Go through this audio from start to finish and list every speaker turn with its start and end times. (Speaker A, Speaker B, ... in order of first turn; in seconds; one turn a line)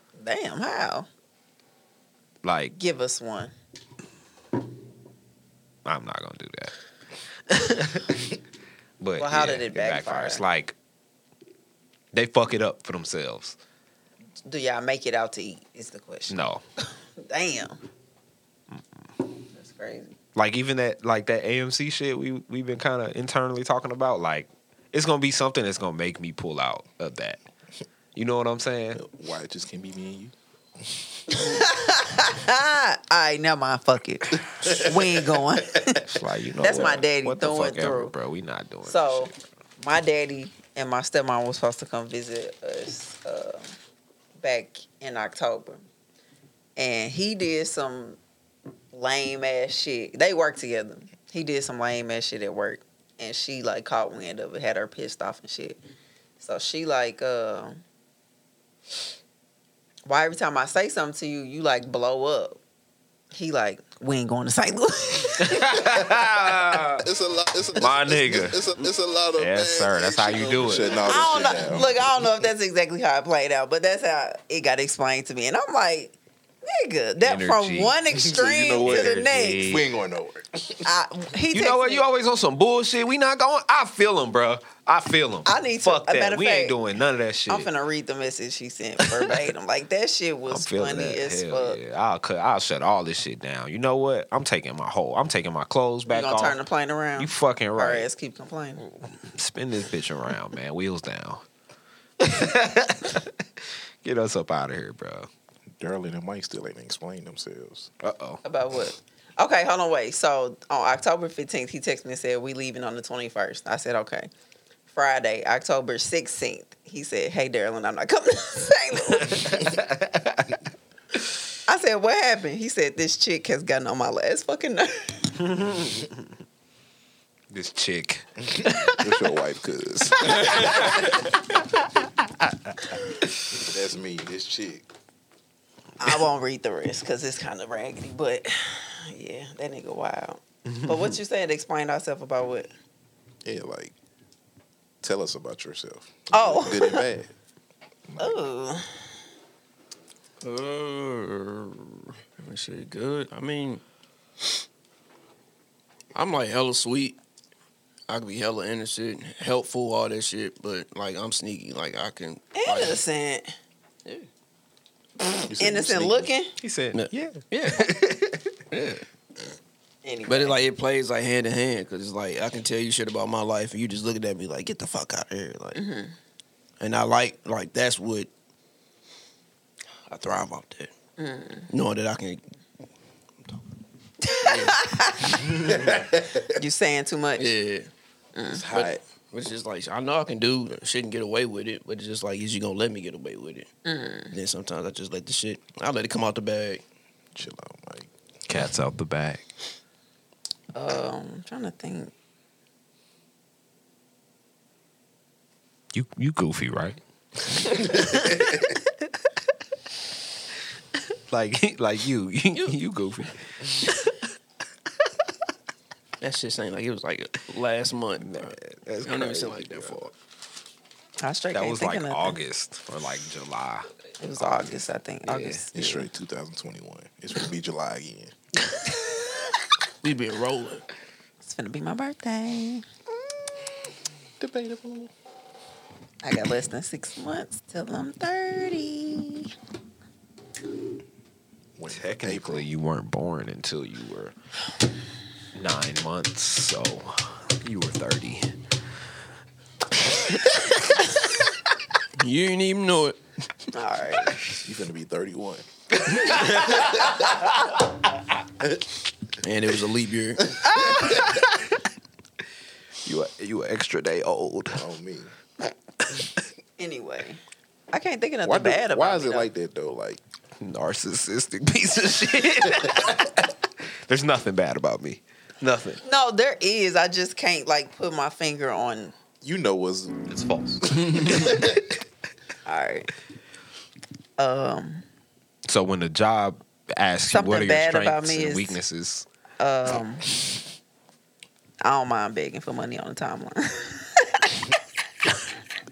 Speaker A: 0.2-1.1
Speaker B: 2.4-2.8
Speaker A: 2.8-3.5
Speaker B: 5.8-6.7
Speaker B: 7.5-8.2
Speaker B: 9.0-10.8
Speaker A: 9.2-10.4
Speaker B: 12.1-13.6
Speaker A: 14.4-17.8
Speaker B: 16.3-16.6
Speaker A: 19.5-20.1
Speaker B: 20.4-27.4
Speaker B: 28.1-29.0
Speaker C: 28.9-31.6
Speaker A: 31.3-36.0
Speaker C: 34.5-35.4
Speaker B: 36.0-39.3
Speaker A: 36.6-38.1
Speaker A: 38.8-43.7
Speaker A: 44.4-45.9
Speaker A: 46.8-48.2
Speaker A: 48.9-55.8
Speaker A: 56.4-57.8
Speaker A: 60.1-62.6
Speaker A: 63.3-65.7
Speaker B: 65.4-67.0
Speaker D: 66.9-71.6
Speaker B: 67.8-68.6
Speaker B: 69.4-70.9
Speaker C: 70.6-71.9
Speaker A: 71.0-79.8
Speaker B: 77.2-78.0
Speaker C: 78.1-80.9
Speaker B: 78.7-79.9
Speaker A: 80.8-82.1
Speaker B: 81.5-87.7
Speaker A: 85.5-86.8
Speaker A: 87.5-91.8
Speaker B: 90.5-96.6
Speaker A: 96.1-98.8
Speaker B: 97.2-98.1
Speaker B: 98.9-101.5
Speaker B: 102.2-105.3
Speaker C: 105.8-107.9
Speaker B: 108.0-108.4
Speaker A: 108.4-114.3
Speaker A: 114.9-119.7
Speaker B: 119.1-120.6
Speaker A: 121.7-125.3
Speaker B: 125.4-126.1
Speaker B: 127.5-129.1
Speaker C: 128.6-131.0
Speaker B: 130.1-132.8
Speaker C: 133.5-134.9
Speaker A: 136.0-142.7
Speaker B: 140.7-141.2
Speaker C: 143.4-143.9
Speaker C: 145.0-147.3
Speaker A: 146.3-147.1
Speaker C: 148.1-148.4
Speaker A: 148.2-149.0
Speaker E: 150.4-153.8
Speaker E: 156.1-157.2
Speaker E: 158.1-163.0
Speaker A: 162.6-163.5
Speaker C: 165.4-166.3
Speaker A: 165.6-166.6
Speaker B: 166.6-168.5
Speaker E: 166.9-168.0
Speaker E: 168.7-169.1
Speaker A: 170.0-170.6
Speaker E: 170.3-175.8
Speaker A: 175.8-176.2
Speaker E: 176.8-178.3
Speaker E: 180.1-180.9
Speaker A: 181.2-181.7
Speaker E: 181.7-182.4
Speaker A: 184.2-185.5
Speaker E: 184.3-185.7
Speaker C: 185.6-186.4
Speaker A: 186.5-187.6
Speaker E: 187.4-187.9
Speaker A: 188.3-188.7
Speaker C: 188.5-189.0
Speaker E: 188.7-193.7
Speaker A: 193.8-194.3
Speaker E: 194.3-196.8
Speaker C: 197.3-198.1
Speaker B: 198.5-199.4
Speaker A: 200.7-202.1
Speaker B: 205.9-207.0
Speaker B: 207.7-208.7
Speaker B: 211.3-214.2
Speaker E: 216.2-220.1
Speaker B: 218.2-220.0
Speaker A: 221.2-222.4
Speaker B: 221.5-224.8
Speaker A: 224.2-226.1
Speaker B: 225.3-225.6
Speaker C: 225.7-228.3
Speaker E: 230.0-230.8
Speaker A: 231.4-232.8
Speaker C: 234.4-235.1
Speaker A: 236.2-239.5
Speaker C: 241.8-242.7
Speaker B: 241.9-244.3
Speaker B: 245.5-248.6
Speaker E: 252.2-253.2
Speaker A: 253.7-254.4
Speaker C: 254.6-255.7
Speaker B: 256.0-257.4
Speaker E: 259.4-260.6
Speaker B: 260.6-261.6
Speaker B: 263.0-264.9
Speaker C: 264.7-265.3
Speaker A: 266.8-267.4
Speaker A: 267.9-269.5
Speaker C: 268.4-270.2
Speaker B: 270.6-273.5
Speaker B: 274.1-276.0
Speaker A: 276.0-279.1
Speaker C: 279.4-281.7
Speaker B: 280.4-281.8
Speaker A: 282.7-283.1
Speaker A: 284.4-285.1
Speaker B: 285.7-289.3
Speaker A: 287.3-288.8
Speaker A: 289.6-290.3
Speaker A: 291.8-294.7